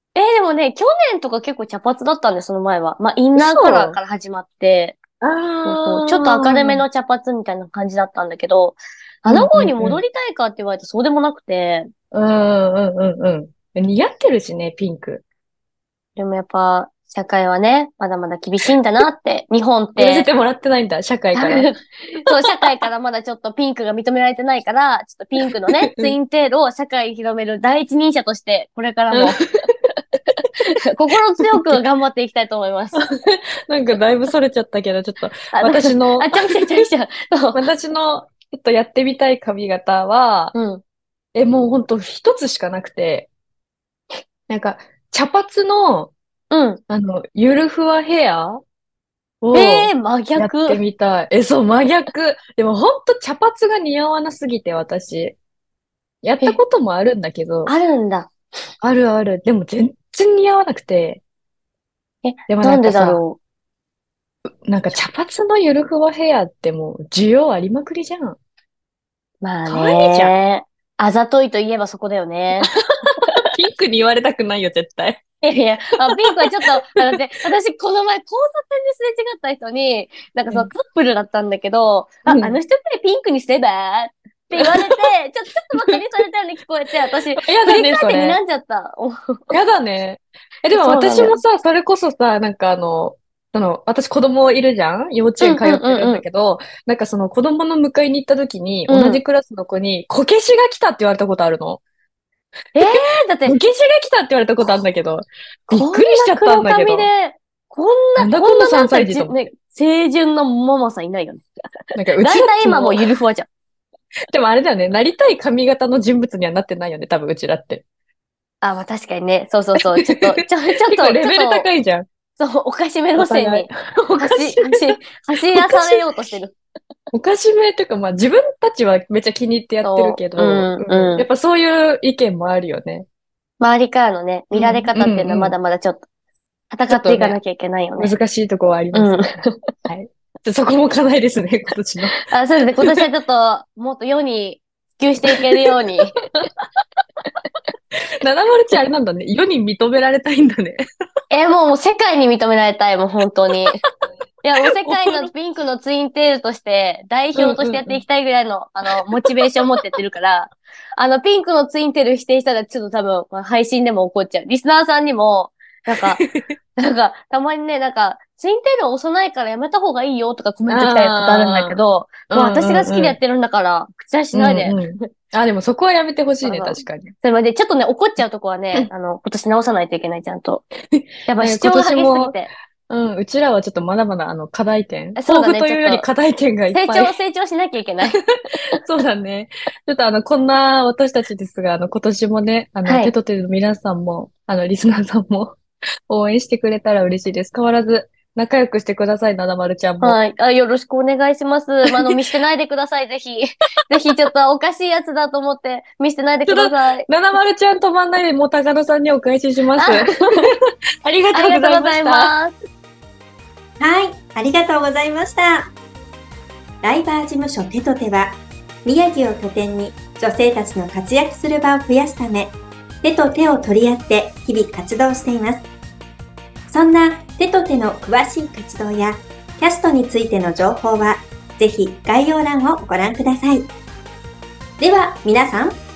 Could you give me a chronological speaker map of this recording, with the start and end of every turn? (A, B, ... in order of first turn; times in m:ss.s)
0:00.1-0:05.0 A
0:03.4-0:04.0 B
0:05.2-0:06.8 B
0:05.6-0:11.9 A
0:09.3-0:10.0 B
0:12.1-0:15.2 B
0:16.2-0:20.3 A
0:20.0-0:21.7 B
0:21.3-0:29.4 A
0:22.3-0:22.7 B
0:25.7-0:26.1 B
0:29.1-0:29.4 B
0:29.9-0:33.0 A
0:31.4-0:31.8 B
0:32.9-0:36.8 B
0:35.5-0:37.6 A
0:37.5-0:40.5 B
0:40.5-0:40.8 A
0:41.3-0:43.3 B
0:44.5-0:46.1 B
0:46.5-0:46.8 A
0:46.9-0:48.6 B
0:49.4-0:55.3 B
0:49.5-0:50.8 A
0:56.2-0:57.7 B
0:57.6-0:58.3 A
0:58.8-1:01.2 B
1:02.2-1:03.4 A
1:02.5-1:03.2 B
1:04.6-1:08.4 B
1:09.4-1:13.4 A
1:09.7-1:10.3 B
1:12.6-1:15.2 B
1:15.4-1:29.6 A
1:16.1-1:17.2 B
1:22.2-1:22.6 B
1:24.5-1:25.0 B
1:27.4-1:28.4 B
1:29.5-1:41.8 B
1:30.7-1:31.4 A
1:35.4-1:36.2 A
1:38.9-1:39.2 A
1:42.7-1:43.6 A
1:42.8-1:47.1 B
1:45.7-1:51.4 A
1:48.2-1:49.4 B
1:51.9-1:53.0 B
1:52.2-1:53.5 A
1:54.3-1:57.8 B
1:58.6-2:01.7 A
1:59.8-2:02.0 B
2:02.4-2:06.6 A
2:03.2-2:06.0 B
2:07.1-2:13.0 B
2:09.8-2:11.2 A
2:13.6-2:16.0 A
2:14.5-2:15.6 B
2:16.7-2:18.1 A
2:16.9-2:17.4 B
2:18.0-2:22.1 B
2:18.9-2:19.7 A
2:22.2-2:26.2 A
2:25.3-2:25.6 B
2:28.2-2:30.8 B
2:31.3-2:33.8 A
2:34.4-2:46.2 A
2:34.8-2:35.3 B
2:37.3-2:38.0 B
2:39.2-2:39.4 B
2:46.2-2:46.4 B
2:46.8-2:54.8 A
2:50.6-2:51.8 B
2:52.3-2:53.2 B
2:54.3-2:57.1 B
2:56.4-3:00.6 A
3:00.9-3:07.1 B
3:01.3-3:02.5 A
3:05.2-3:06.0 A
3:06.7-3:08.2 A
3:08.8-3:15.6 B
3:12.8-3:13.1 A
3:16.1-3:20.2 B
3:20.0-3:27.1 A
3:21.8-3:22.2 B
3:26.4-3:30.5 B
3:29.8-3:30.4 A
3:31.0-3:32.3 B
3:31.3-3:32.5 A
3:33.8-3:35.7 C
3:36.8-3:45.7 C
3:46.7-3:53.7 C
3:54.8-3:55.8 C